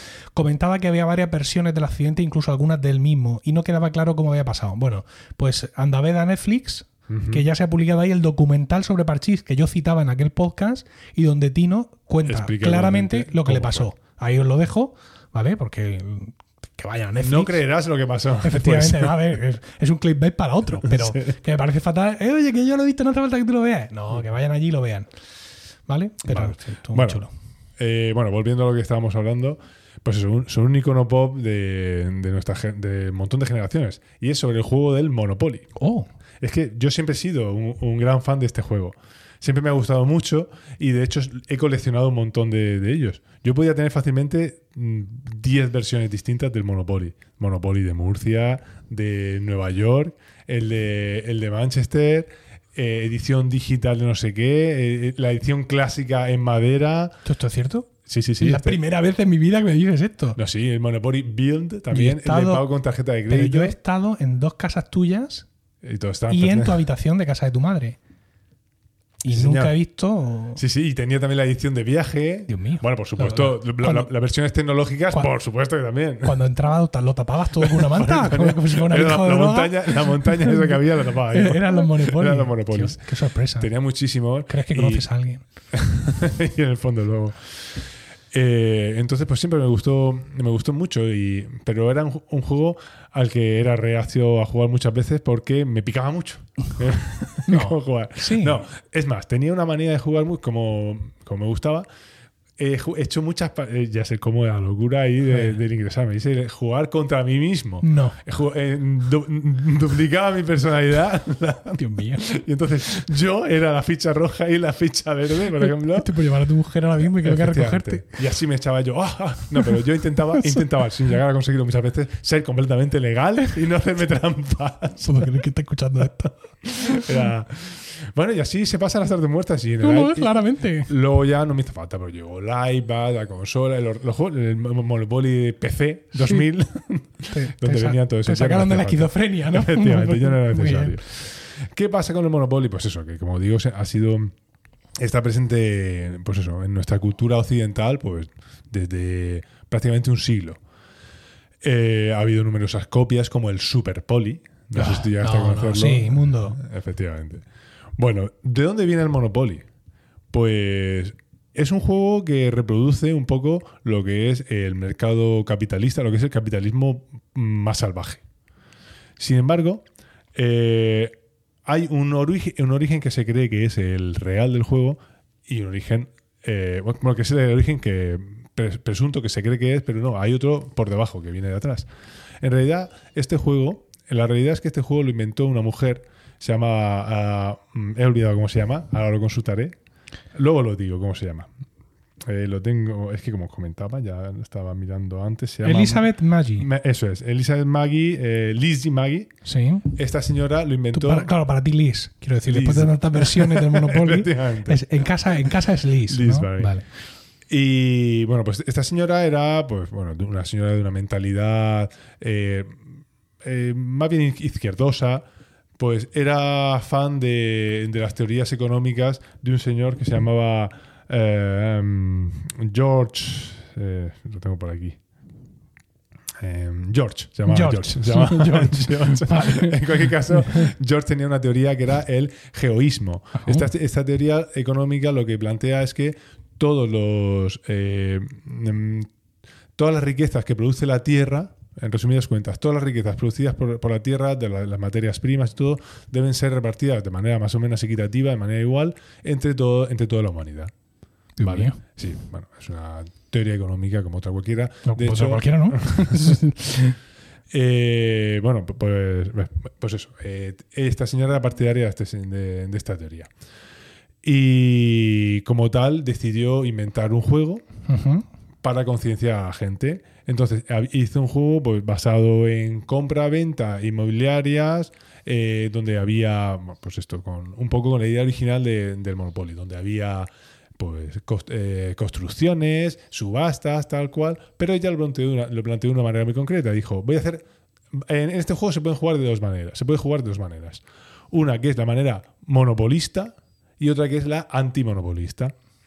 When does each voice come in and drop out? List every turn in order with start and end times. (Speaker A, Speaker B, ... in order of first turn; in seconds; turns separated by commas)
Speaker A: 0.3-17.6, Speaker B: 7.1-7.5, Speaker B: 12.2-13.9, Speaker B: 17.2-19.2, Speaker A: 18.4-25.1, Speaker B: 20.8-21.2, Speaker A: 25.9-27.3, Speaker B: 26.2-27.2, Speaker B: 27.8-35.7, Speaker A: 35.8-36.1, Speaker B: 36.4-57.2, Speaker A: 57.2-60.4, Speaker B: 58.0-58.8, Speaker B: 60.4-63.8, Speaker A: 61.9-62.7, Speaker A: 63.3-65.5, Speaker B: 65.8-66.8, Speaker A: 66.3-68.0, Speaker A: 69.2-70.6, Speaker B: 69.3-69.7, Speaker B: 70.6-76.3, Speaker A: 72.5-74.1, Speaker A: 76.2-83.7, Speaker B: 77.6-83.0, Speaker B: 83.6-85.0, Speaker A: 84.5-85.4, Speaker B: 85.7-87.5, Speaker B: 88.3-101.8, Speaker A: 97.5-98.6, Speaker B: 102.6-116.2, Speaker A: 105.3-105.6, Speaker A: 107.8-108.2, Speaker A: 111.8-112.3, Speaker A: 115.5-118.1, Speaker B: 117.0-125.3, Speaker A: 120.3-120.6, Speaker A: 125.0-127.3, Speaker B: 126.6-144.3, Speaker A: 129.8-130.9, Speaker A: 137.3-141.0, Speaker B: 145.0-150.6, Speaker B: 151.6-157.4, Speaker A: 154.8-156.6, Speaker B: 158.0-159.7, Speaker B: 160.3-168.2, Speaker B: 169.2-171.1, Speaker B: 171.6-181.9, Speaker B: 182.4-189.8, Speaker B: 190.3-191.5, Speaker B: 192.2-199.3, Speaker A: 195.6-196.7, Speaker A: 199.4-199.9, Speaker B: 199.9-201.3, Speaker A: 200.9-206.8, Speaker B: 202.4-204.8, Speaker B: 206.1-206.8, Speaker B: 207.5-212.9, Speaker B: 213.4-215.2, Speaker B: 215.8-225.0, Speaker B: 226.4-239.1, Speaker A: 227.5-230.7, Speaker A: 233.3-233.7, Speaker B: 239.8-250.7, Speaker A: 251.4-251.8, Speaker B: 251.4-256.4, Speaker A: 254.8-257.0, Speaker B: 257.5-263.3, Speaker B: 264.2-267.6, Speaker A: 267.9-268.2, Speaker B: 268.6-295.5